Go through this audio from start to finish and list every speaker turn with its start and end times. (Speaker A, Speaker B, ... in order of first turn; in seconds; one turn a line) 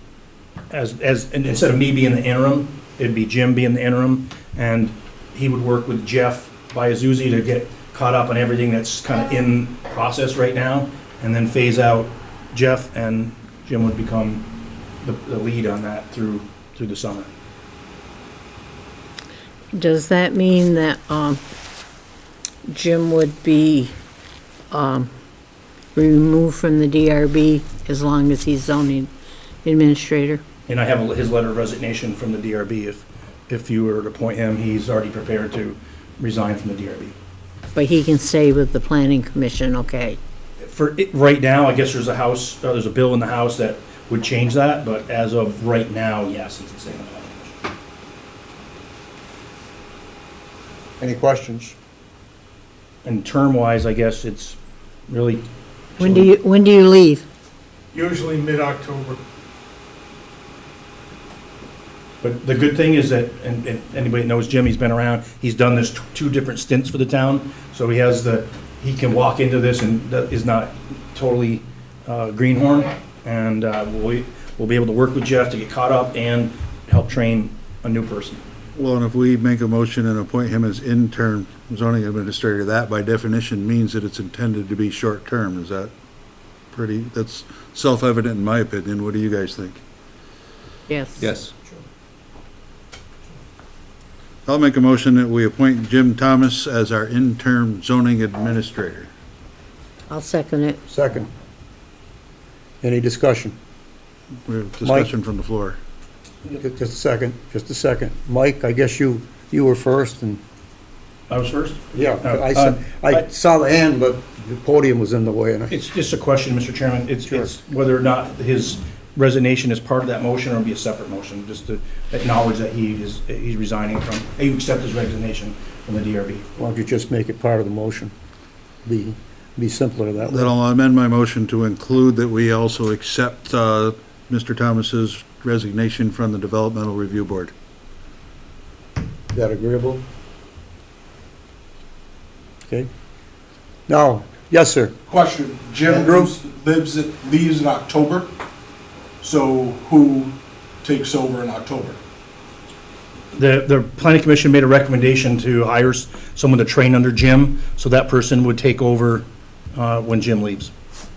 Speaker A: 0.7-14.5
Speaker A: 15.0-17.3
Speaker B: 19.7-21.4
Speaker B: 22.7-23.9
Speaker B: 24.7-25.1
Speaker B: 25.9-29.1
Speaker B: 29.6-30.4
Speaker A: 30.7-37.2
Speaker B: 37.8-40.2
Speaker A: 40.6-47.6
Speaker C: 51.0-51.8
Speaker A: 53.0-55.4
Speaker A: 56.0-56.3
Speaker B: 56.0-57.2
Speaker D: 57.9-59.2
Speaker A: 62.2-78.4
Speaker E: 78.8-85.9
Speaker E: 86.7-89.8
Speaker B: 90.9-91.3
Speaker E: 94.5-99.1
Speaker B: 100.1-100.8
Speaker C: 100.9-101.3
Speaker C: 102.8-103.6
Speaker E: 104.5-105.8
Speaker C: 104.8-105.1
Speaker C: 106.5-110.4
Speaker A: 111.3-113.2
Speaker C: 111.9-115.8
Speaker A: 115.7-126.5
Speaker C: 126.6-128.1
Speaker C: 128.8-130.5
Speaker E: 130.3-137.5
Speaker C: 139.3-140.0
Speaker C: 143.9-145.0
Speaker D: 145.1-148.3
Speaker C: 145.8-146.3
Speaker D: 149.2-152.0
Speaker A: 153.3-160.7